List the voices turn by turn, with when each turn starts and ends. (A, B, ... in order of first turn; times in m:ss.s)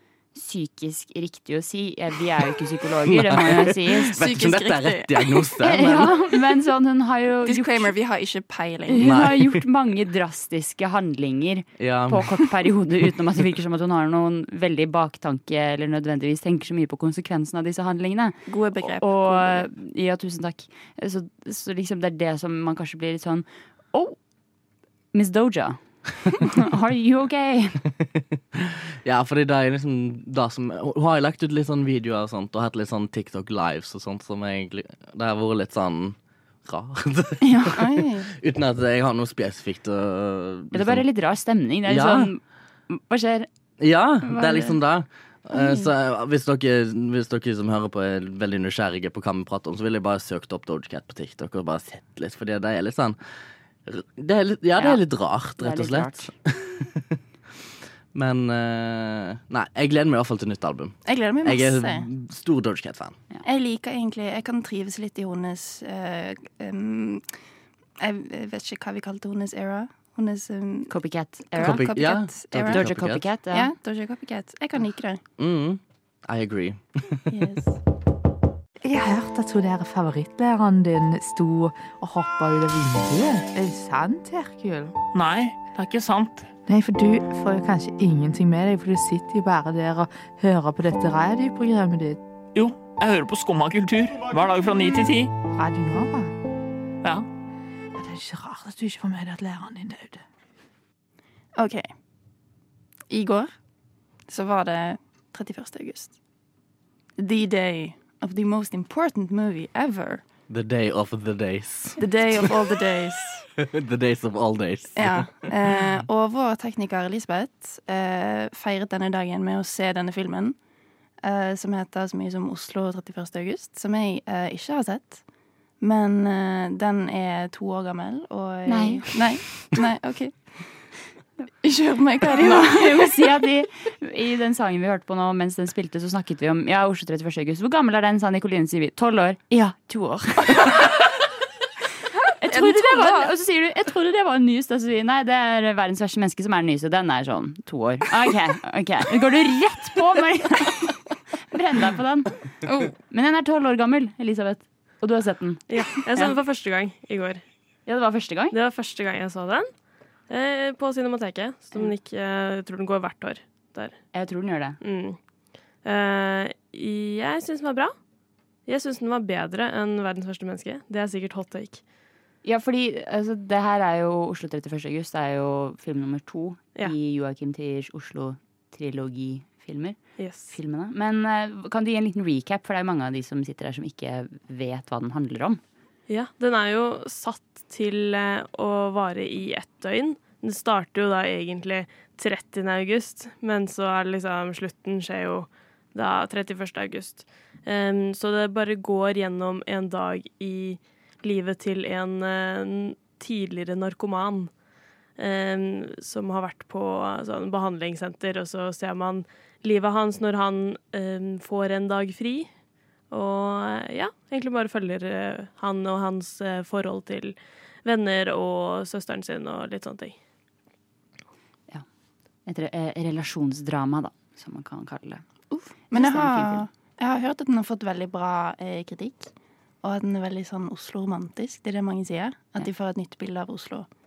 0:00.3-0:04.2 A
0:03.0-0:06.2 B
0:04.1-0:05.4 C
0:05.6-0:07.9 A
0:07.4-0:09.1 C
0:08.9-0:24.2 A
0:09.0-0:09.6 B
0:11.8-0:12.3 B
0:18.5-0:19.7 C
0:25.1-0:27.8 A
0:28.0-0:41.1 B
0:37.4-0:37.8 A
0:37.7-0:38.3 C
0:40.7-0:43.5 A
0:41.9-0:42.3 B
0:43.8-0:53.2 B
0:44.2-0:44.8 A
0:53.9-0:57.2 B
0:55.6-0:56.3 A
0:58.1-1:03.2 B
1:01.1-1:02.1 C
1:03.4-1:07.2 C
1:08.0-1:10.9 C
1:10.9-1:11.9 A
1:11.5-1:12.9 C
1:11.6-1:13.2 B
1:12.6-1:13.7 A
1:13.5-1:15.2 C
1:15.4-1:17.4 B
1:17.3-1:17.8 C
1:18.8-1:25.0 D
1:25.1-1:26.5 E
1:26.7-1:32.2 D
1:32.6-1:35.3 E
1:35.5-1:36.3 D
1:38.0-1:40.2 D
1:41.6-1:41.9 C
1:43.1-1:43.5 C
1:44.3-1:46.2 C
1:47.2-1:50.2 C
1:50.5-1:52.6 B
1:52.0-1:53.5 C
1:53.6-1:55.5 B
1:55.0-2:00.6 C
2:01.2-2:05.2 C
2:05.8-2:10.4 C
2:08.7-2:09.1 A
2:11.6-2:13.2 C
2:12.2-2:20.9 A
2:22.4-2:31.0 A
2:22.5-2:23.3 C
2:31.5-2:32.4 A
2:32.7-2:32.9 C
2:33.0-2:36.3 A
2:35.7-2:37.4 F
2:37.9-2:38.6 A
2:38.5-2:39.7 F
2:40.3-2:44.0 F
2:44.1-2:44.8 A
2:44.8-2:45.2 F
2:45.8-2:47.9 F
2:48.7-2:51.8 F
2:52.4-3:00.0 A
3:00.2-3:00.5 F
3:00.5-3:05.6 A
3:06.1-3:24.5 F
3:25.2-3:32.5 F
3:33.1-3:40.2 F
3:42.5-3:46.7 A
3:45.5-3:49.3 C
3:49.8-3:53.9 C